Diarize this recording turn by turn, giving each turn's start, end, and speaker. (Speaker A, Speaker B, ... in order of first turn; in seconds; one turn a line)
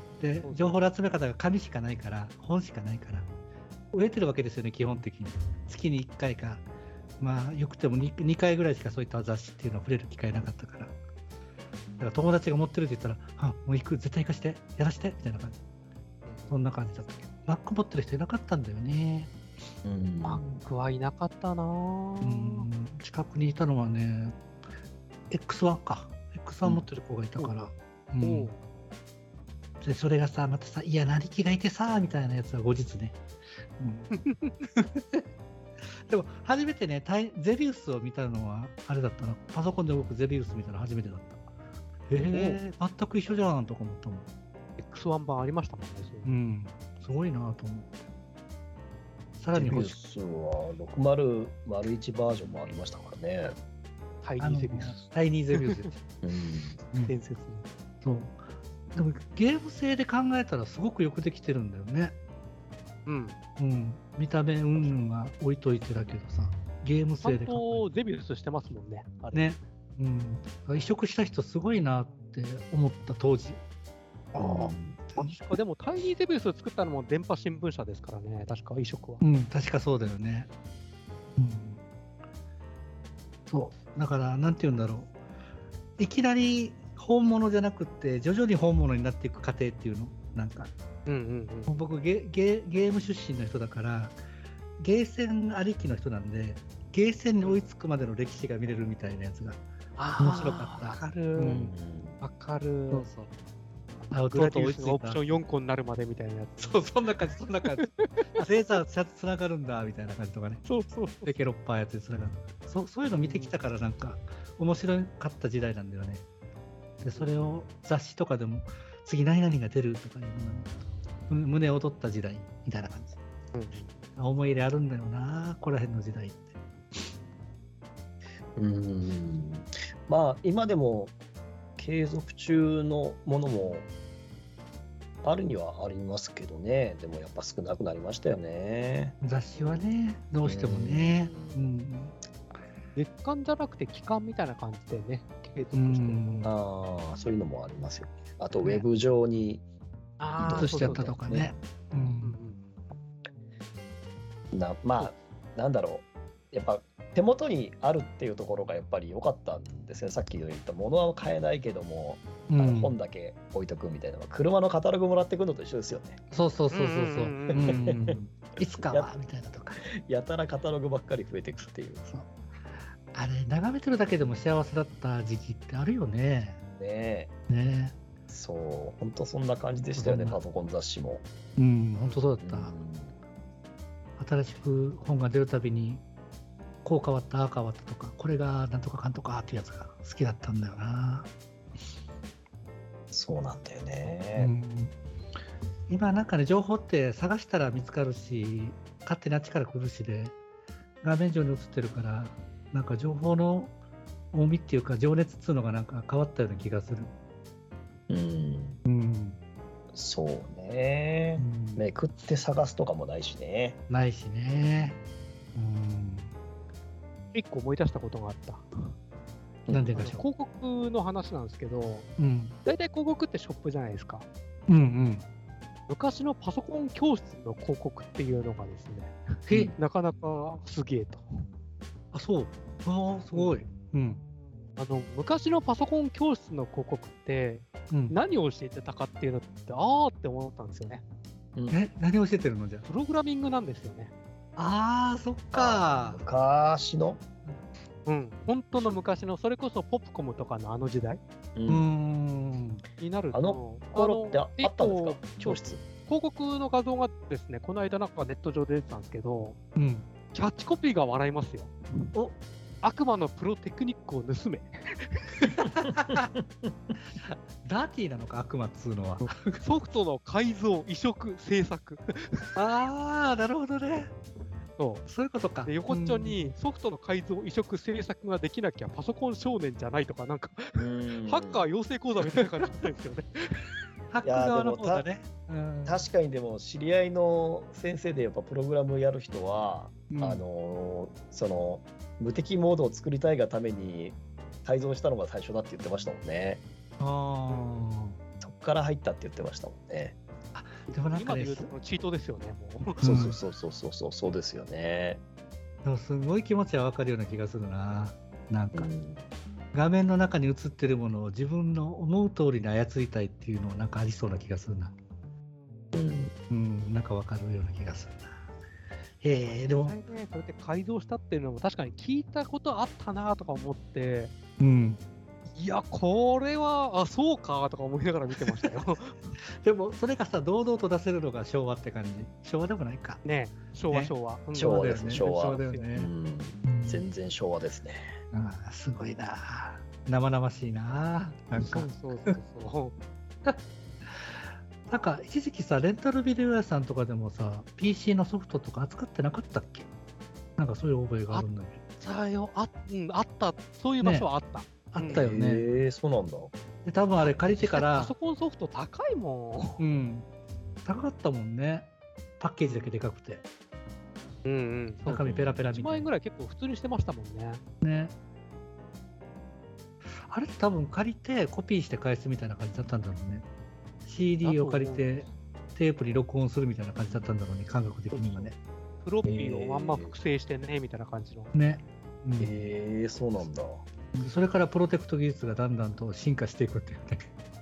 Speaker A: 0.2-3.3
Speaker B: 0.4-0.8
Speaker A: 3.9-6.7
Speaker A: 7.2-10.9
Speaker A: 12.0-15.6
Speaker B: 16.2-16.6
Speaker A: 16.5-19.3
Speaker C: 19.8-20.6
Speaker B: 20.2-22.7
Speaker A: 22.2-24.4
Speaker A: 25.3-28.5
Speaker B: 27.4-28.6
Speaker A: 29.8-33.2
Speaker A: 33.8-35.2
Speaker B: 34.1-34.6
Speaker A: 36.1-41.4
Speaker A: 42.1-44.2
Speaker C: 42.1-42.5
Speaker B: 42.3-42.6
Speaker B: 44.8-46.4
Speaker A: 46.2-48.0
Speaker A: 49.4-49.9
Speaker C: 49.5-53.5
Speaker B: 54.2-55.8
Speaker A: 54.4-56.0
Speaker C: 56.2-56.8
Speaker B: 57.0-57.6
Speaker A: 58.0-58.4
Speaker A: 58.9-62.2
Speaker B: 63.0-63.4
Speaker A: 63.6-67.9
Speaker B: 67.2-69.5
Speaker A: 69.3-73.6
Speaker A: 74.3-75.3
Speaker C: 74.4-75.0
Speaker B: 75.1-79.2
Speaker A: 79.2-80.5
Speaker A: 81.4-81.8
Speaker A: 83.5-85.1
Speaker A: 86.0-90.7
Speaker B: 91.0-91.7
Speaker A: 91.7-94.2
Speaker A: 94.8-99.6
Speaker B: 97.4-97.7
Speaker B: 100.0-101.6
Speaker A: 100.2-101.7
Speaker C: 101.4-102.2
Speaker B: 102.2-103.1
Speaker A: 102.9-103.3
Speaker B: 104.0-108.5
Speaker A: 104.1-105.2
Speaker A: 106.6-110.6
Speaker B: 110.6-111.3
Speaker A: 111.2-116.2
Speaker B: 113.2-113.5
Speaker A: 117.0-120.7
Speaker B: 117.1-117.6
Speaker A: 121.3-123.2
Speaker B: 123.5-123.9
Speaker A: 124.2-126.4
Speaker C: 128.6-131.1
Speaker C: 131.8-133.9
Speaker C: 135.2-139.2
Speaker A: 139.2-142.1
Speaker C: 140.4-141.7
Speaker B: 142.9-146.5
Speaker A: 145.7-146.5
Speaker C: 146.4-149.6
Speaker B: 150.2-151.2
Speaker C: 150.4-151.5
Speaker A: 150.4-152.4
Speaker B: 151.9-152.6
Speaker C: 154.5-166.2
Speaker A: 162.5-162.9
Speaker A: 166.3-169.8
Speaker B: 166.7-167.8
Speaker C: 167.5-169.1
Speaker C: 169.8-172.0
Speaker A: 173.1-176.6
Speaker C: 176.8-177.3
Speaker A: 177.5-178.0
Speaker C: 178.3-181.2
Speaker A: 180.0-180.4
Speaker A: 181.6-182.7
Speaker C: 182.0-183.2
Speaker A: 184.2-186.0
Speaker A: 186.8-191.3
Speaker C: 193.1-194.5
Speaker A: 194.3-194.9
Speaker A: 195.9-200.3
Speaker A: 201.0-203.7
Speaker A: 204.3-207.1
Speaker C: 208.1-208.8
Speaker A: 208.8-209.4
Speaker C: 209.9-213.8
Speaker A: 211.4-211.8
Speaker A: 213.9-215.0
Speaker A: 215.6-216.3
Speaker B: 217.3-218.7
Speaker A: 219.7-220.2
Speaker B: 219.9-222.1
Speaker A: 222.2-222.5
Speaker B: 222.6-224.3
Speaker A: 224.7-225.2
Speaker B: 225.9-231.2
Speaker A: 229.5-229.7
Speaker A: 232.1-234.2
Speaker B: 233.3-233.6
Speaker B: 234.8-241.0
Speaker A: 237.9-238.2
Speaker A: 241.7-242.8
Speaker B: 242.8-244.1
Speaker A: 244.6-246.2
Speaker C: 245.5-247.2
Speaker B: 248.0-251.2
Speaker C: 251.5-251.8
Speaker A: 251.7-252.8
Speaker B: 253.0-259.6
Speaker C: 253.3-255.8
Speaker A: 259.8-260.1
Speaker B: 260.3-261.7
Speaker B: 262.8-265.4
Speaker A: 265.6-266.2
Speaker A: 267.2-269.6
Speaker B: 269.6-272.4
Speaker A: 272.6-274.1
Speaker B: 274.8-275.1
Speaker A: 275.1-276.5
Speaker B: 275.6-283.6
Speaker C: 280.8-281.6
Speaker A: 284.1-286.0
Speaker C: 284.2-285.0
Speaker C: 285.9-296.6
Speaker A: 290.1-290.4
Speaker A: 297.0-298.1
Speaker C: 298.4-300.2
Speaker A: 300.5-301.7
Speaker B: 300.9-303.3
Speaker C: 303.0-305.2
Speaker A: 303.0-303.4
Speaker A: 305.8-308.9
Speaker C: 308.7-309.2
Speaker A: 309.7-314.9
Speaker C: 315.9-316.3
Speaker A: 316.5-318.3
Speaker A: 319.2-320.0
Speaker B: 319.7-324.3
Speaker A: 324.6-325.0
Speaker B: 325.5-329.2
Speaker A: 328.4-328.7
Speaker A: 329.6-333.2
Speaker B: 333.2-335.9
Speaker A: 333.9-336.1
Speaker C: 334.6-338.1
Speaker A: 336.6-337.0
Speaker A: 338.3-342.4
Speaker B: 341.6-342.9
Speaker A: 343.4-349.9
Speaker A: 350.6-351.8
Speaker B: 351.3-355.2
Speaker A: 354.0-354.3
Speaker A: 354.9-355.6
Speaker C: 355.0-356.5
Speaker A: 356.8-358.1
Speaker B: 357.5-359.8
Speaker A: 359.8-360.3
Speaker A: 360.8-363.4
Speaker B: 362.6-363.0
Speaker B: 364.4-367.6
Speaker A: 365.1-366.1
Speaker C: 365.1-365.6
Speaker A: 367.8-368.1
Speaker A: 370.1-373.4
Speaker A: 374.0-378.6
Speaker B: 374.4-375.3
Speaker B: 378.1-381.5
Speaker C: 379.2-380.1
Speaker A: 381.5-382.5
Speaker C: 382.4-383.8
Speaker A: 384.1-387.2